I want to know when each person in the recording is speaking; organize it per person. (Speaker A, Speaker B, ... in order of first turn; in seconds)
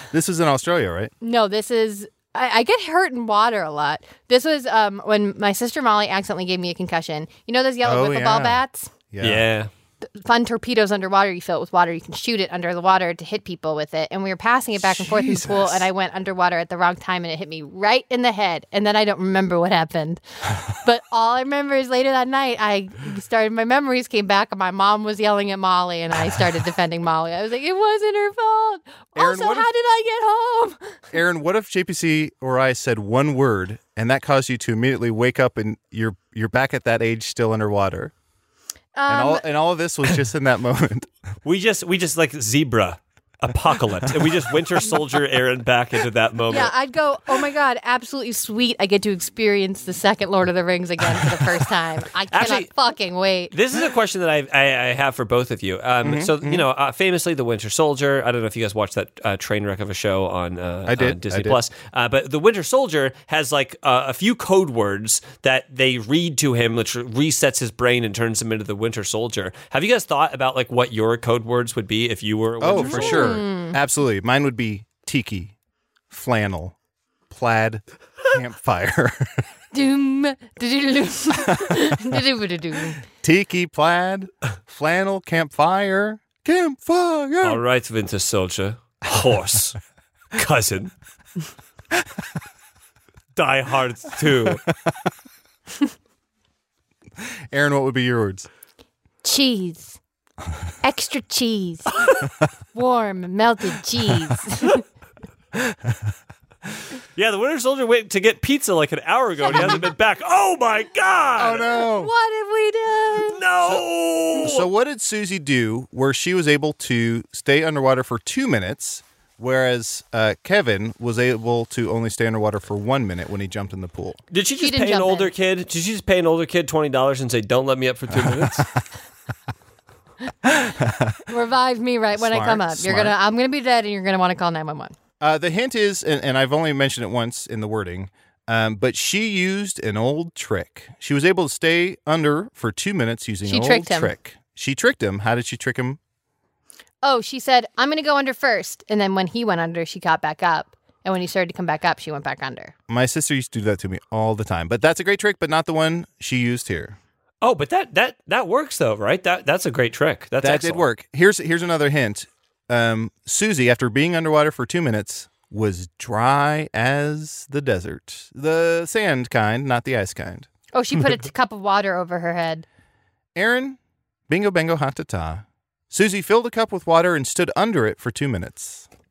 Speaker A: 0.1-1.1, 7.8-9.5, 14.8-15.9, 29.2-29.7, 31.1-38.1, 39.1-41.1, 56.0-56.7, 60.9-61.6, 72.6-75.5, 76.1-76.8, 77.3-79.4, 81.5-82.1, 83.2-87.6, 97.5-98.5, 105.6-106.1, 111.4-112.1, 113.6-124.2, 128.1-128.7, 130.5-131.2, 132.2-133.2, 135.2-146.0, 152.9-157.0, 160.4-170.5, 173.3-173.8, 174.3-178.9
Speaker B: 1.2-8.9, 10.0-31.0, 39.0-39.5, 46.5-53.5, 72.8-73.8, 79.7-83.0, 99.2-100.0, 100.8-102.0, 102.7-104.8, 111.6-113.4, 124.6-125.3, 131.3-134.9, 143.4-144.1, 147.0-152.7, 170.7-172.7
Speaker C: 9.2-9.7, 41.4-46.7, 52.3-52.7, 53.5-73.4, 87.4-89.8, 90.3-90.9, 93.3-94.6, 107.2-111.7, 113.3-114.7, 124.3-128.7, 157.4-160.9